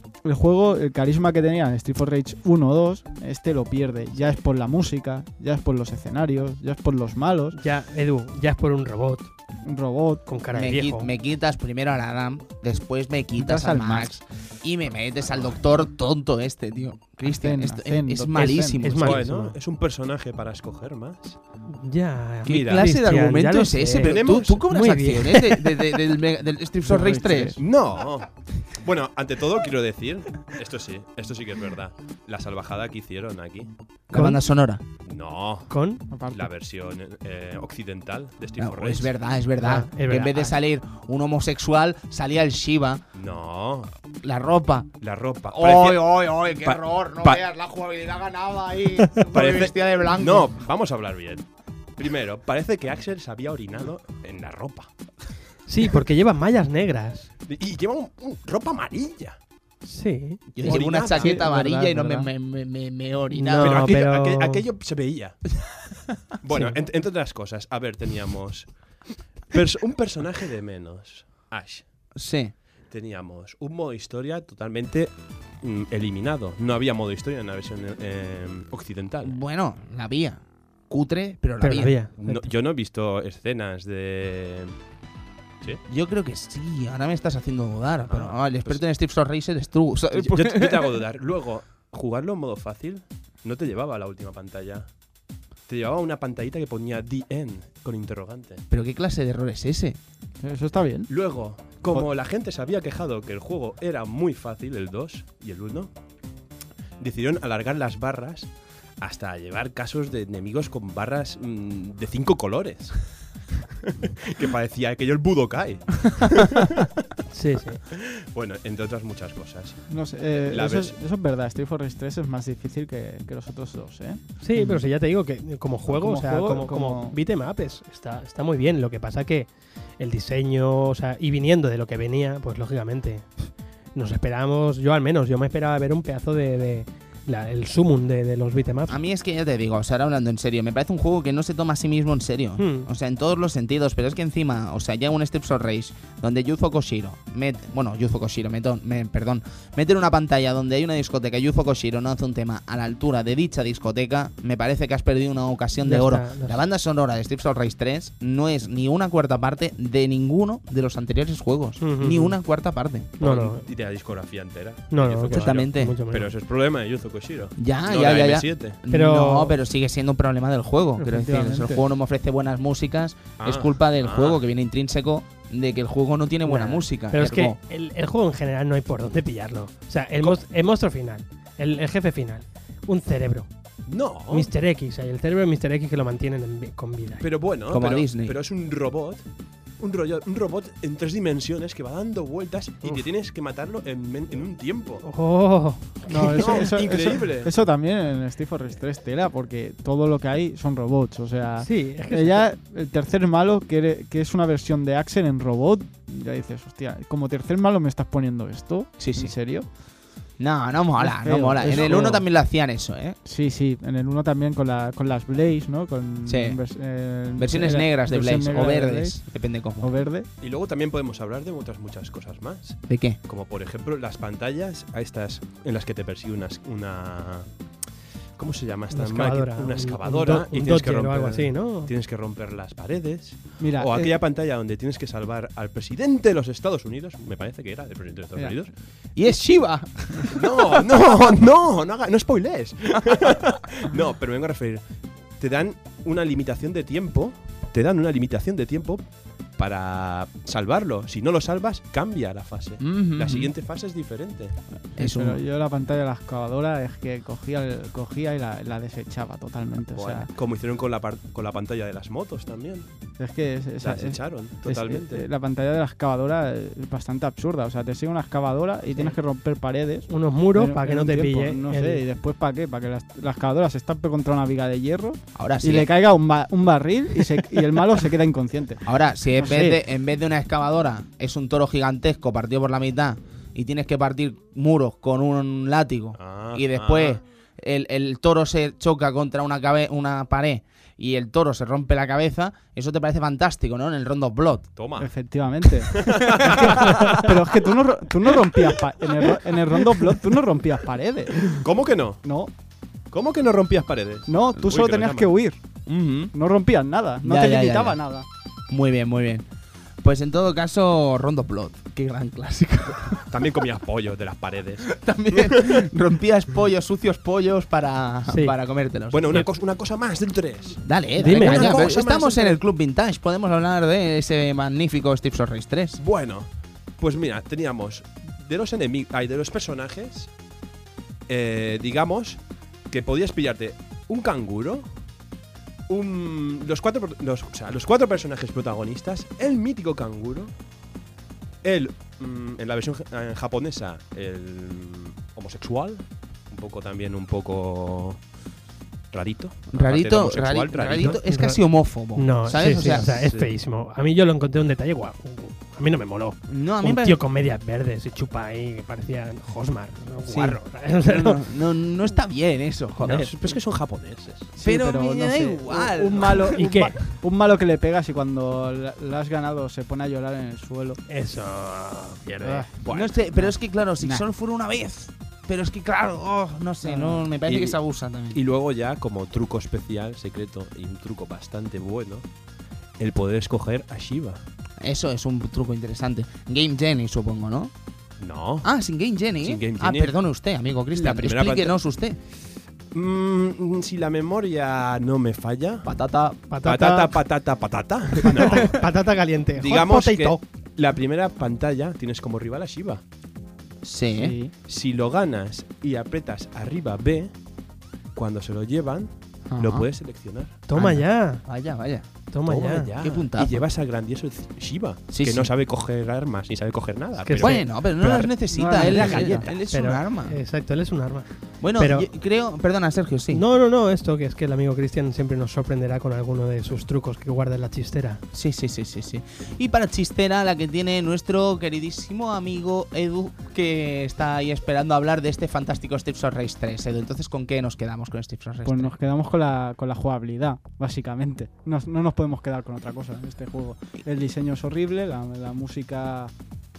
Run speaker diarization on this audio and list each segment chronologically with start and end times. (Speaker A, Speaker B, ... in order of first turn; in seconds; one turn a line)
Speaker A: 0.2-7.6
Speaker B: 7.5-9.3
Speaker A: 9.6-10.3
Speaker B: 10.2-11.1
Speaker C: 10.5-19.2
Speaker A: 13.5-13.9
Speaker B: 13.6-14.0
Speaker A: 17.2-18.8
Speaker B: 18.3-19.6
Speaker D: 19.0-21.4
Speaker B: 21.7-25.9
Speaker D: 22.4-22.9
Speaker C: 22.4-27.6
Speaker D: 24.0-24.6
Speaker A: 26.8-27.6
Speaker D: 27.6-33.7
Speaker C: 34.1-34.8
Speaker B: 34.1-34.4
Speaker D: 35.0-35.7
Speaker B: 35.7-36.0
Speaker A: 36.1-36.5
Speaker D: 36.3-39.1
Speaker C: 38.6-43.0
Speaker B: 39.6-40.5
Speaker D: 43.1-43.9
Speaker C: 44.2-44.9
Speaker D: 45.0-47.4
Speaker C: 45.5-50.5
Speaker D: 49.3-55.0
Speaker B: 55.6-57.3
Speaker D: 57.5-59.4
Speaker B: 59.8-60.8
Speaker C: 60.5-64.0
Speaker D: 60.6-61.3
Speaker A: 60.9-62.3
Speaker B: 63.3-64.6
Speaker D: 63.6-65.6
Speaker D: 66.4-71.9
Speaker B: 66.5-66.8
Speaker C: 72.1-72.5
Speaker D: 72.9-79.3
Speaker C: 79.2-82.0
Speaker B: 81.6-82.5
Speaker D: 82.2-84.8
Speaker C: 85.8-91.0
Speaker D: 88.1-88.8
Speaker D: 90.1-95.0
Speaker D: 95.7-98.6
Speaker C: 98.7-100.0
Speaker A: 100.4-101.1
Speaker D: 101.1-105.9
Speaker D: 107.0-113.0
Speaker D: 113.9-116.9
Speaker B: 117.3-117.8
Speaker D: 117.9-121.0
Speaker A: 119.9-124.2
Speaker B: 124.4-139.0
Speaker A: 125.9-127.2
Speaker C: 138.9-163.2
Speaker B: 142.6-142.9
Speaker B: 155.8-156.6
Speaker B: 161.8-162.4
Speaker B: 163.2-163.6
Speaker D: 163.2-168.8
Speaker B: 164.9-166.3
Speaker C: 165.3-166.0
Speaker C: 167.6-177.6
Speaker B: 168.9-169.6
Speaker A: 171.0-171.8
Speaker D: 173.4-174.4
Speaker B: 176.4-183.5
Speaker D: 183.9-184.5
Speaker B: 184.3-187.3
Speaker D: 187.2-189.2
Speaker C: 187.7-188.3
Speaker D: 189.8-195.1
Speaker B: 195.0-196.7
Speaker A: 196.1-209.7
Speaker D: 196.1-197.5
Speaker B: 201.6-202.5
Speaker C: 209.0-209.3
Speaker C: 210.4-213.2
Speaker A: 211.0-212.2
Speaker D: 211.6-212.1
Speaker A: 213.2-219.2
Speaker C: 216.2-216.6
Speaker C: 217.3-219.9
Speaker A: 219.8-220.3
Speaker D: 220.4-227.5
Speaker C: 222.9-223.2
Speaker D: 228.4-238.7
Speaker B: 228.9-231.9
Speaker A: 233.6-234.2
Speaker A: 238.3-238.7
Speaker C: 239.2-240.4
Speaker A: 240.1-240.4
Speaker D: 240.3-254.6
Speaker C: 252.8-253.5
Speaker C: 254.9-255.4
Speaker A: 255.0-260.3
Speaker D: 259.9-262.9
Speaker A: 263.2-278.8
Speaker D: 263.8-265.2
Speaker B: 270.1-272.0
Speaker C: 275.3-275.9
Speaker C: 278.8-294.7
Speaker A: 279.3-279.8
Speaker D: 286.2-287.2
Speaker D: 294.8-295.1
Speaker A: 295.0-301.6
Speaker D: 295.7-297.3
Speaker D: 301.6-302.2
Speaker A: 302.2-302.5
Speaker D: 303.1-305.3
Speaker A: 304.3-305.6
Speaker D: 305.9-306.3
Speaker A: 306.3-308.2
Speaker C: 307.2-308.0
Speaker C: 308.7-309.4
Speaker C: 310.0-313.3
Speaker D: 313.3-315.9
Speaker C: 314.8-319.4
Speaker B: 318.3-318.5
Speaker D: 319.1-322.6
Speaker C: 320.8-326.0
Speaker B: 321.2-321.9
Speaker D: 326.0-330.3
Speaker D: 331.3-334.9
Speaker D: 335.9-340.5
Speaker D: 341.6-348.2
Speaker D: 349.1-351.2
Speaker C: 349.7-353.1
Speaker B: 350.9-351.6
Speaker B: 352.1-361.4
Speaker D: 352.8-353.5
Speaker C: 356.5-357.2
Speaker C: 360.2-363.3
Speaker D: 363.0-364.5
Speaker B: 363.0-363.3
Speaker A: 364.5-371.0
Speaker C: 364.6-366.6
Speaker B: 366.5-367.1
Speaker B: 371.1-372.7
Speaker A: 372.4-374.2
Speaker D: 372.8-373.1
Speaker C: 372.9-378.4
Speaker A: 376.8-377.3
Speaker D: 377.4-377.8
Speaker D: 378.3-382.2
Speaker D: 383.0-384.4
Speaker C: 384.8-387.7
Speaker D: 388.2-388.7
Speaker C: 388.6-392.2
Speaker D: 389.4-390.1
Speaker D: 390.9-391.8
Speaker D: 392.9-395.9
Speaker C: 395.8-396.4
Speaker B: 396.5-397.2
Speaker D: 396.6-398.8
Speaker B: 398.2-400.4
Speaker D: 399.6-403.0
Speaker C: 403.8-404.4
Speaker A: 404.1-404.5
Speaker D: 404.6-407.4
Speaker D: 408.1-410.6
Speaker C: 409.6-409.9
Speaker B: 410.7-411.4
Speaker C: 410.7-412.1
Speaker B: 412.3-412.9
Speaker D: 412.4-417.7
Speaker C: 413.0-413.6
Speaker C: 415.1-415.5
Speaker B: 417.2-417.6
Speaker C: 417.4-420.4
Speaker A: 418.2-419.5
Speaker D: 418.8-419.3
Speaker B: 418.9-422.1
Speaker C: 421.6-423.4
Speaker B: 423.3-428.2
Speaker C: 428.3-438.9
Speaker A: 438.6-446.3